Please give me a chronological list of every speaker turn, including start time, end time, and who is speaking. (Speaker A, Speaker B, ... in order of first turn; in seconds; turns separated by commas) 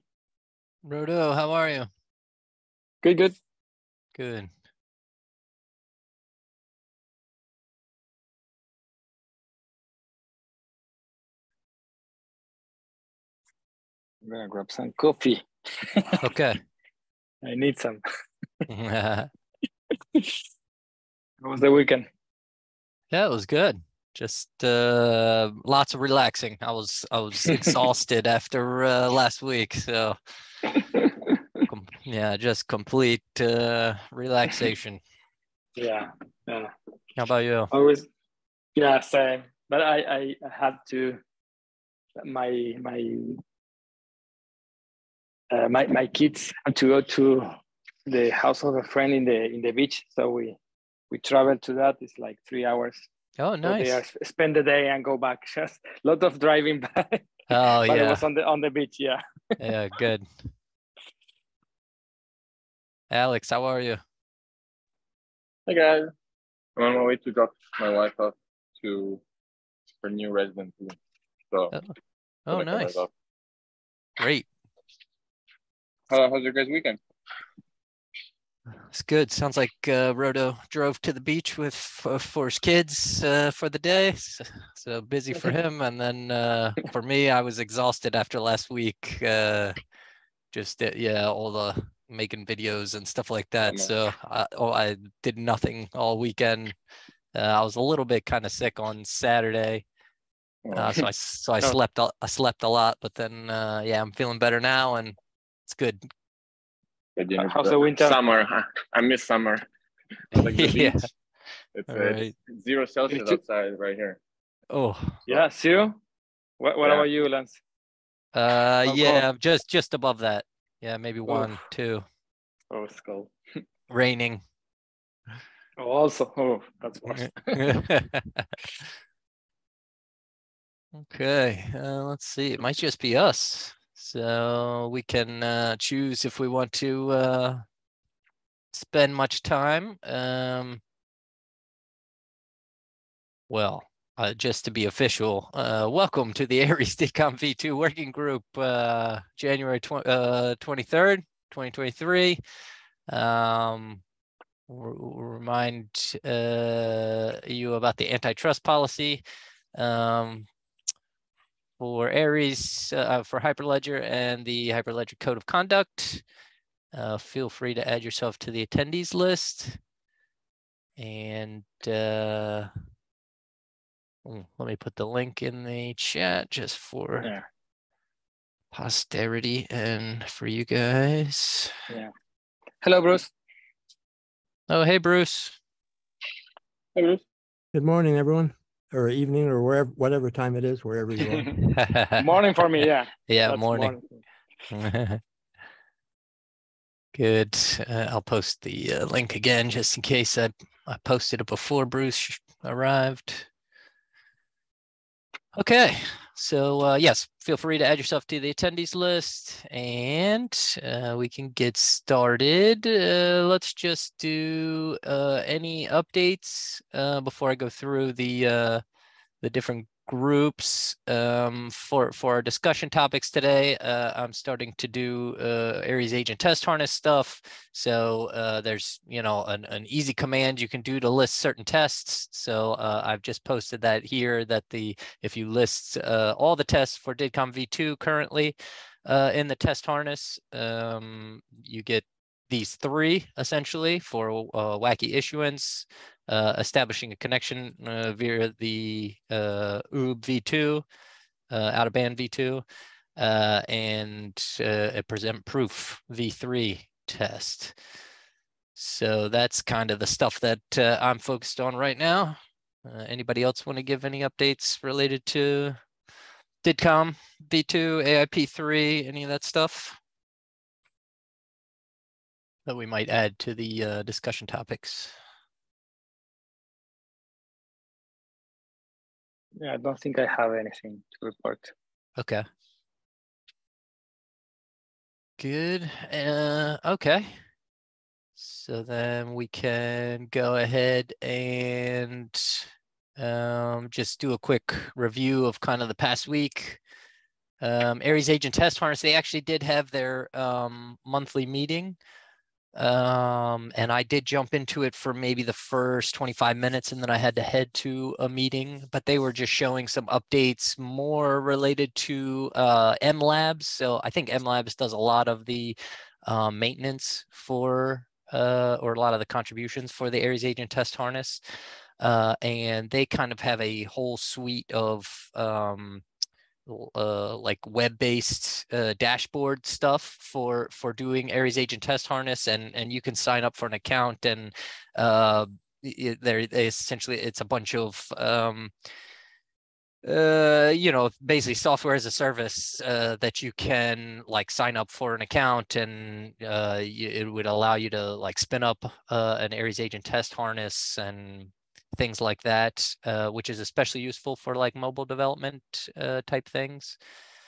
Speaker A: 0.8-1.9, Speaker B: 3.0-3.4, Speaker A: 4.2-4.5, Speaker B: 14.2-16.2, Speaker A: 16.2-16.6, Speaker B: 17.4-18.0, Speaker A: 18.7-19.3, Speaker B: 21.4-22.1, Speaker A: 23.1-30.2, Speaker A: 31.6-35.0, Speaker B: 35.8-36.7, Speaker A: 37.2-37.7, Speaker B: 37.7-38.1, Speaker B: 38.8-41.2, Speaker B: 42.2-43.4, Speaker B: 45.5-47.5, Speaker B: 48.1-50.6, Speaker B: 51.1-53.1, Speaker A: 53.4-54.0, Speaker B: 53.6-59.7, Speaker A: 57.5-58.2, Speaker A: 59.6-60.5, Speaker A: 63.1-64.0, Speaker C: 65.7-66.1, Speaker C: 66.8-69.2, Speaker C: 70.0-71.0, Speaker C: 71.5-71.8, Speaker A: 72.5-73.0, Speaker C: 72.5-73.1, Speaker A: 74.2-74.5, Speaker C: 76.1-77.0, Speaker A: 78.9-89.8, Speaker A: 90.5-96.8, Speaker C: 93.6-93.9, Speaker A: 97.3-99.8, Speaker C: 100.7-101.1, Speaker A: 100.7-106.0, Speaker C: 107.2-109.7, Speaker B: 107.4-108.2, Speaker C: 110.3-111.1, Speaker A: 110.3-111.1, Speaker C: 111.8-114.2, Speaker A: 111.9-112.3, Speaker A: 113.1-113.4, Speaker A: 114.7-115.2, Speaker B: 115.3-116.0, Speaker B: 116.6-117.6, Speaker A: 118.3-122.0, Speaker B: 118.8-119.2, Speaker B: 121.3-121.6, Speaker B: 122.7-123.3, Speaker A: 123.9-124.4, Speaker B: 125.8-127.7, Speaker A: 127.2-128.5, Speaker A: 130.9-137.6, Speaker A: 138.7-140.8, Speaker A: 143.5-152.4, Speaker A: 153.1-154.0, Speaker A: 154.7-159.2, Speaker A: 159.7-160.5, Speaker A: 161.8-166.2, Speaker A: 166.9-169.8, Speaker A: 171.0-172.7, Speaker A: 174.2-177.3, Speaker A: 178.7-181.7, Speaker B: 182.8-183.3, Speaker A: 184.7-185.6, Speaker C: 186.9-187.2, Speaker D: 187.7-191.5, Speaker A: 191.6-192.3, Speaker B: 192.2-194.2, Speaker A: 193.3-193.9, Speaker A: 194.7-195.2, Speaker A: 197.1-203.5, Speaker A: 205.6-218.8, Speaker A: 219.4-250.8, Speaker A: 251.5-252.6, Speaker A: 253.2-257.8, Speaker A: 258.8-265.8, Speaker A: 266.6-270.0, Speaker A: 272.6-275.1, Speaker B: 279.6-281.7, Speaker A: 282.2-282.4, Speaker A: 285.4-287.4, Speaker A: 288.4-296.8, Speaker A: 297.6-302.0, Speaker A: 302.8-321.4, Speaker A: 322.0-326.0, Speaker A: 326.7-338.7, Speaker A: 340.0-357.0